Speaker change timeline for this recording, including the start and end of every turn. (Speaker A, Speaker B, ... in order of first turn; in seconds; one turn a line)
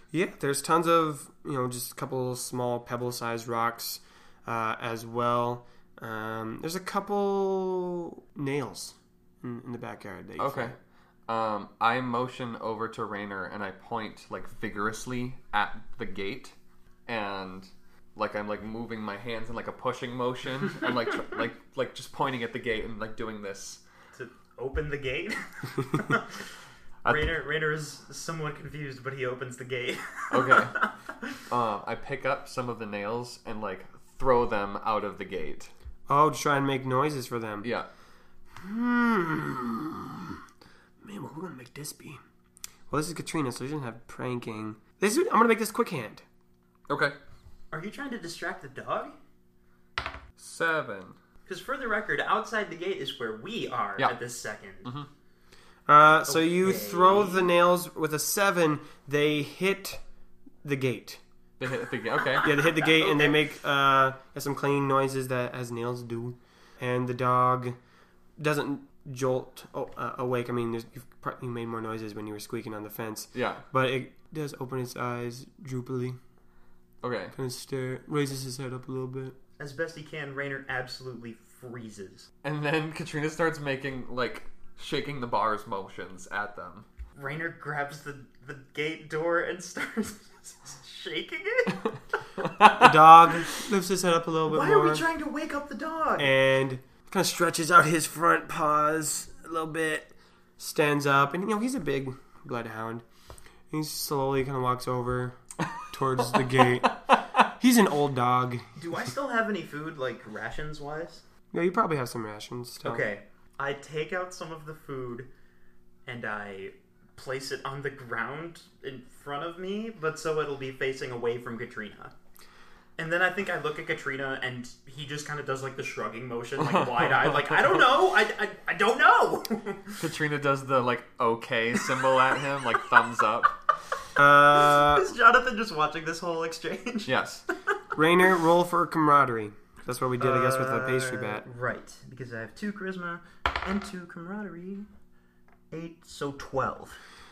Speaker A: 0.1-10.8
Speaker B: 10.4-10.7
Speaker B: 11.3-16.5
Speaker B: 17.1-23.8
Speaker C: 24.1-26.4
Speaker B: 27.0-27.4
Speaker C: 27.0-30.9
Speaker B: 30.3-30.8
Speaker B: 31.5-35.7
Speaker A: 36.1-37.7
Speaker B: 37.6-37.9
Speaker A: 38.6-40.4
Speaker A: 41.0-42.2
Speaker A: 42.9-46.2
Speaker B: 46.9-47.1
Speaker C: 47.7-49.1
Speaker B: 50.4-51.1
Speaker C: 51.5-55.0
Speaker A: 55.9-60.0
Speaker C: 56.3-57.5
Speaker A: 60.6-61.2
Speaker B: 61.6-62.6
Speaker C: 62.4-63.4
Speaker A: 62.4-67.8
Speaker A: 68.4-76.2
Speaker B: 73.3-73.6
Speaker B: 77.0-77.3
Speaker A: 77.3-79.3
Speaker C: 79.6-82.3
Speaker B: 82.4-86.8
Speaker C: 87.1-91.9
Speaker B: 92.4-92.9
Speaker A: 92.7-95.0
Speaker C: 94.5-96.3
Speaker A: 96.2-103.0
Speaker A: 103.7-105.4
Speaker A: 105.9-108.7
Speaker C: 108.8-111.2
Speaker A: 111.5-113.0
Speaker C: 112.8-115.3
Speaker C: 116.0-122.1
Speaker C: 123.0-130.0
Speaker B: 126.6-127.6
Speaker B: 130.0-133.6
Speaker A: 134.2-135.1
Speaker C: 134.5-137.1
Speaker B: 137.1-137.4
Speaker A: 137.9-141.4
Speaker C: 140.2-144.9
Speaker C: 145.7-147.0